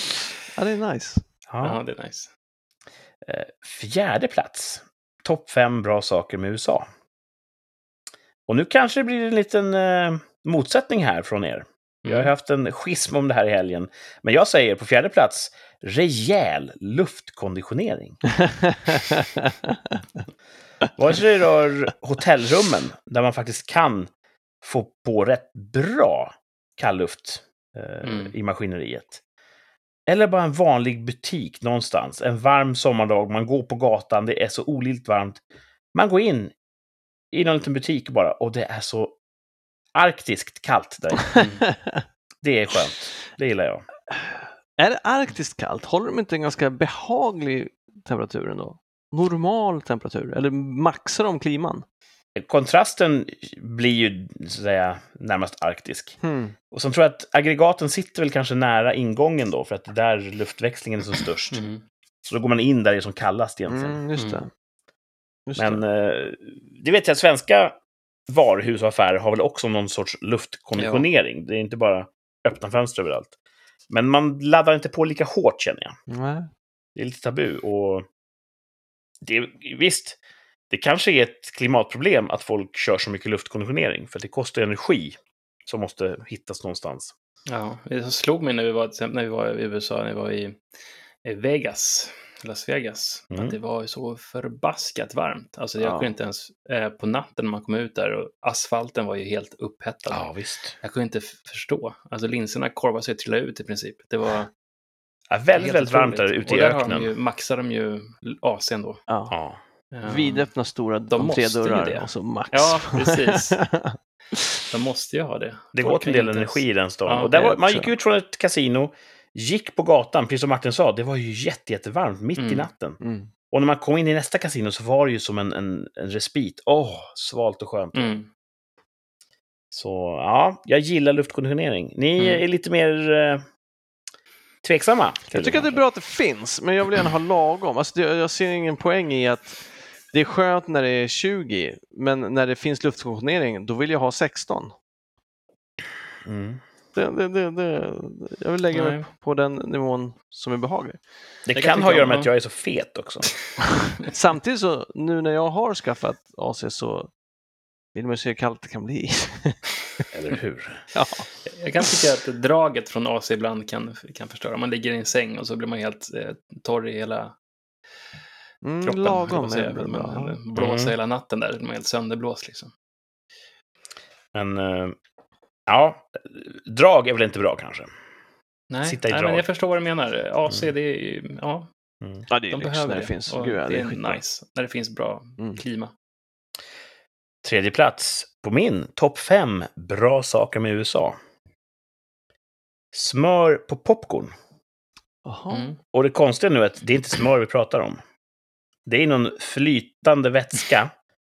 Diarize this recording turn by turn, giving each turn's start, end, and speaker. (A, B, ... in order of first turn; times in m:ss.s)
0:00.6-0:01.2 A
0:01.5-0:01.8 B
0:01.6-0:02.3 C
0:03.2-0:06.9 B
0:08.5-0:18.2 B
0:12.0-0:12.3 C
0:18.4-0:20.0 A
0:21.0-0:24.1 B
0:24.6-0:29.2 B
0:28.0-0:28.3 C
0:30.1-0:35.4 B
0:35.9-0:36.5 B
0:37.3-0:39.2 B
0:40.0-0:41.5 B
0:41.4-0:42.0 A
0:42.4-0:43.9 B
0:44.2-0:51.8 A
0:52.4-0:56.2 B
0:56.2-0:56.6 A
0:56.7-1:01.6 B
1:01.5-1:01.8 C
1:02.2-1:04.0 B
1:03.7-1:04.5 A
1:05.5-1:05.8 A
1:05.6-1:07.8 B
1:08.3-1:13.3 B
1:10.8-1:11.1 C
1:13.9-1:16.0 B
1:16.1-1:16.5 A
1:17.0-1:18.1 B
1:19.2-1:20.2 B
1:20.7-1:27.1 B
1:27.5-1:30.6 C
1:31.2-1:40.3 C
1:33.3-1:33.6 B
1:35.8-1:36.1 B
1:40.1-1:40.8 B
1:40.8-1:44.5 C
1:45.3-1:47.1 B
1:45.6-1:49.0 C
1:49.1-1:49.4 A
1:49.3-1:49.6 B
1:49.9-1:50.5 C
1:50.0-1:54.6 A
1:51.1-1:53.6 C
1:54.7-1:57.4 C
1:55.8-2:03.0 B
1:57.3-1:57.9 A
2:02.4-2:02.7 C
2:03.0-2:03.3 A
2:03.5-2:08.1 B
2:07.9-2:08.3 C
2:09.7-2:13.4 B
2:14.6-2:15.7 B
2:15.3-2:24.7 A
2:26.2-2:26.6 B
2:26.9-2:31.0 A
2:28.7-2:29.1 C
2:31.5-2:33.4 B
2:31.6-2:32.3 C
2:34.0-2:37.1 A
2:37.9-2:40.0 A
2:40.1-2:40.9 B
2:40.9-2:41.3 A
2:41.6-2:47.4 C
2:48.6-2:50.4 A
2:48.8-2:52.7 C
2:50.6-2:50.9 B
2:54.3-2:55.0 B
2:55.7-2:57.9 B
2:58.7-3:01.7 C
2:58.8-2:59.4 B
3:02.3-3:04.2 A
3:02.5-3:05.9 C
3:07.4-3:11.2 B
3:12.9-3:14.3 B
3:15.2-3:15.7 A
3:15.5-3:15.8 C
3:15.9-3:18.0 B
3:18.9-3:20.9 B